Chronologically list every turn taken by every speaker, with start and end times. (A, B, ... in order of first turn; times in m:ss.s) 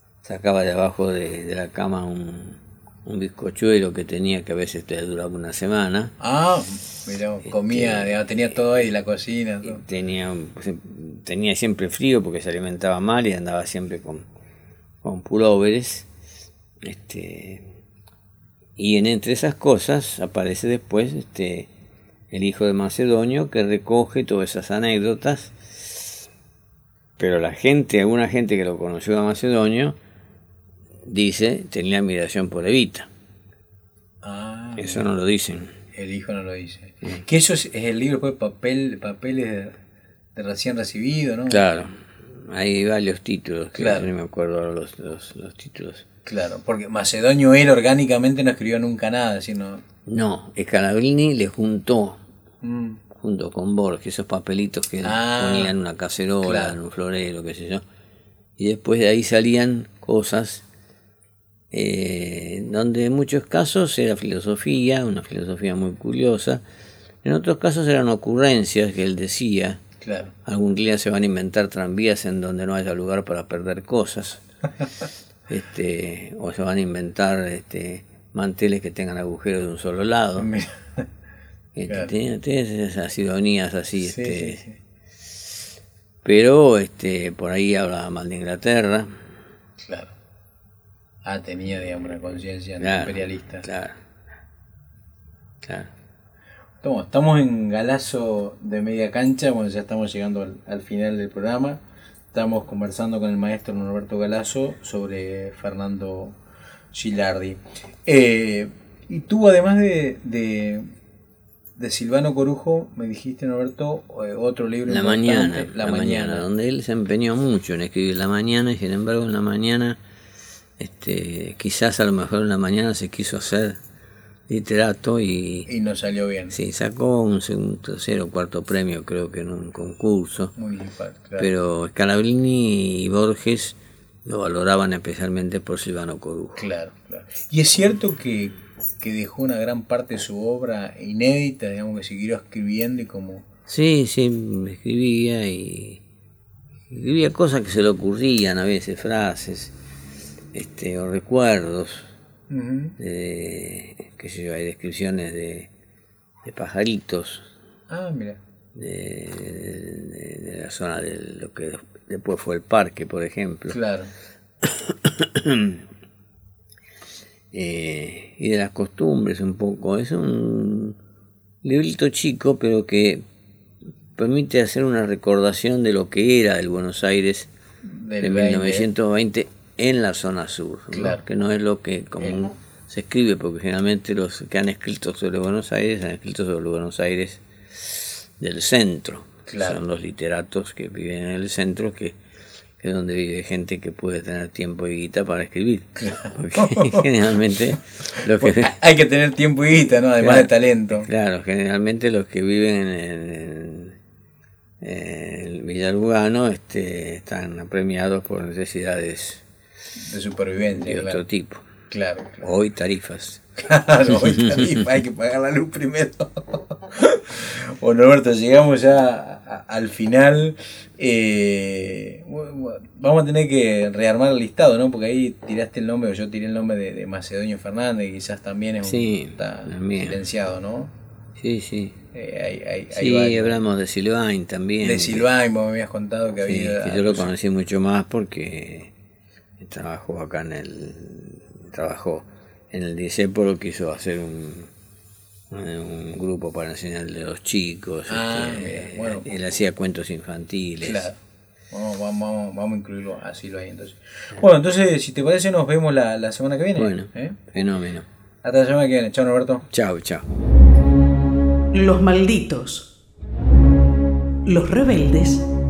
0:00.2-0:06.2 A
0:06.2-0:09.8 B
0:07.5-0:08.6 A
0:09.6-0:14.3 A
0:15.0-0:16.1 A
0:16.8-0:17.8 A
0:18.8-0:21.7 A
0:22.3-0:26.2 A
0:27.2-0:30.0 A
0:31.0-0:33.1 A
0:34.2-0:35.0 B
0:34.8-0:35.7 A
0:36.0-0:39.8 B
0:40.4-0:41.6 B
0:41.5-0:46.1 A
0:43.8-0:44.1 B
0:46.3-0:49.8 B
0:50.1-0:52.2 A
0:52.6-0:53.0 B
0:53.1-0:57.8 A
0:55.0-0:55.7 B
0:56.4-0:56.8 B
0:58.6-1:00.6 A
1:01.7-1:06.6 A
1:07.2-1:09.8 A
1:10.0-1:10.3 B
1:10.5-1:14.4 A
1:15.5-1:20.5 A
1:20.4-1:21.1 B
1:21.8-1:24.6 A
1:24.0-1:24.8 B
1:26.2-1:29.1 A
1:29.8-1:30.1 B
1:31.2-1:33.6 B
1:32.8-1:34.0 A
1:35.6-1:35.9 A
1:36.8-1:41.8 B
1:42.3-1:46.4 B
1:46.9-1:50.9 B
1:51.8-1:56.5 B
1:54.9-2:00.0 A
2:00.8-2:03.8 A
2:04.5-2:05.7 A
2:05.7-2:06.6 B
2:06.5-2:10.5 A
2:10.6-2:11.5 B
2:11.4-2:16.7 A
2:16.6-2:23.4 B
2:23.7-2:26.0 A
2:26.9-2:29.8 A
2:30.5-2:32.1 A
2:32.5-2:33.0 B
2:33.0-2:35.7 A
2:36.4-2:37.5 A
2:37.9-2:38.4 B
2:38.8-2:43.8 A
2:43.7-2:44.1 B
2:44.6-2:45.8 A
2:47.5-2:51.0 A
2:51.6-2:53.2 A
2:54.2-2:57.5 A
2:57.8-2:58.9 B
2:58.2-3:12.2 A
3:00.9-3:01.2 B
3:09.5-3:09.8 B
3:12.8-3:18.8 A
3:16.0-3:17.1 B
3:18.1-3:21.1 B
3:20.2-3:24.0 A
3:24.8-3:29.4 A
3:30.0-3:31.2 B
3:30.8-3:31.7 A
3:31.9-3:32.5 B
3:32.4-3:33.4 A
3:33.6-3:50.9 B
3:34.1-3:34.8 A
3:48.8-3:50.2 A
3:51.4-3:52.0 A
3:52.1-3:53.6 B
3:52.9-3:55.3 A
3:54.8-3:57.3 B
3:56.4-3:58.9 A
3:59.6-4:04.7 A
4:05.5-4:11.1 A
4:08.1-4:09.3 B
4:10.8-4:11.2 B
4:11.7-4:17.5 B
4:16.8-4:18.1 A
4:18.4-4:19.7 B
4:19.7-4:20.3 A
4:21.7-4:22.9 C
4:24.4-4:25.5 C